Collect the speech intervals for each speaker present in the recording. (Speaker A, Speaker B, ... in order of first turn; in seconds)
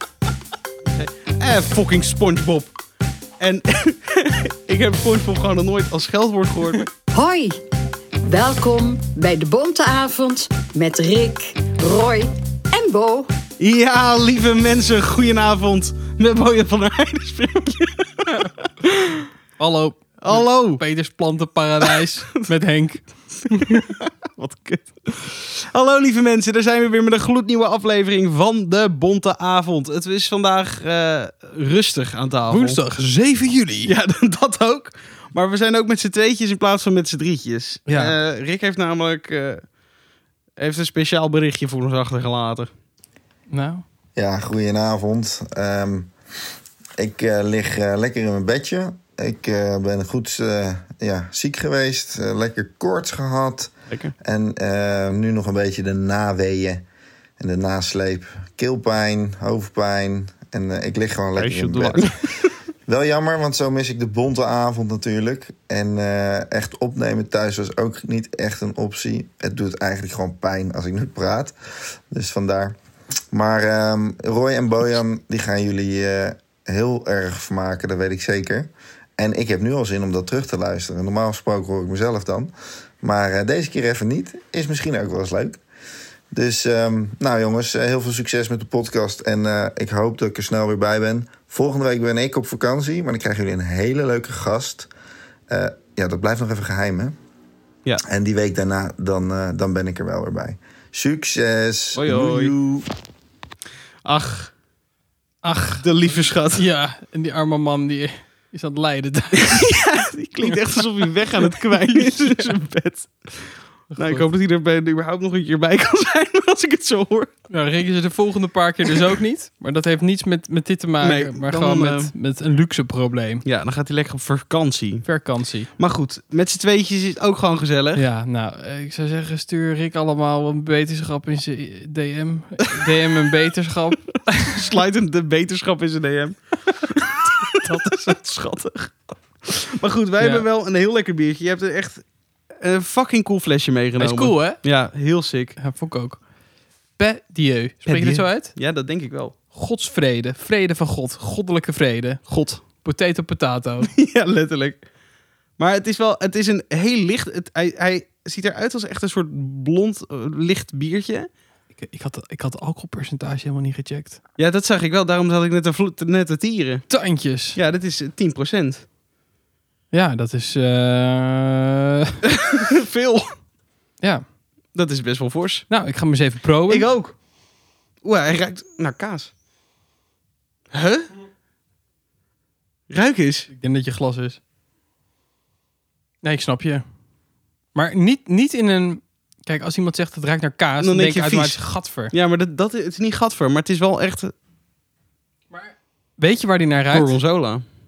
Speaker A: 0.9-2.7, 3.4-6.9, 13.6-19.3, 20.2-20.8, 23.7-32.8, 33.8-39.6, 40.6-42.7, 61.4-62.5, 102.0-102.5, 104.0-104.5, 105.8-106.6, 109.4-117.3, 121.0-122.1, 123.4-125.1, 125.8-128.0, 134.4-142.0, 142.6-145.6, 147.8-149.3, 152.3-152.6, 153.8-154.8, 155.6-161.3, 164.4-167.0, 167.5-168.8, 172.3-173.3, 174.7-175.7, 176.7-177.2, 178.0-179.3, 180.7-181.1, 182.9-183.5, 190.8-194.3, 196.9-197.6
Speaker B: 7.1-7.6, 8.2-13.3
Speaker C: 19.6-23.9, 32.5-33.9, 37.9-38.1, 43.5-43.8, 105.4-109.8, 110.4-110.8, 111.5-112.5, 113.9-114.2, 117.5-123.4, 125.0-125.7, 128.0-134.6, 137.6-138.1, 140.2-140.4, 144.0-144.6, 145.6-146.2, 147.0-148.5, 149.5-153.9, 161.7-164.2, 166.9-167.6, 169.9-172.2, 175.7-176.9, 183.5-184.4, 186.2-186.8, 187.7-192.1, 195.5-197.1
Speaker D: 44.1-46.1, 47.0-56.8, 57.4-71.5, 72.1-72.7, 73.3-85.6, 86.3-94.9, 95.5-97.1, 98.0-102.8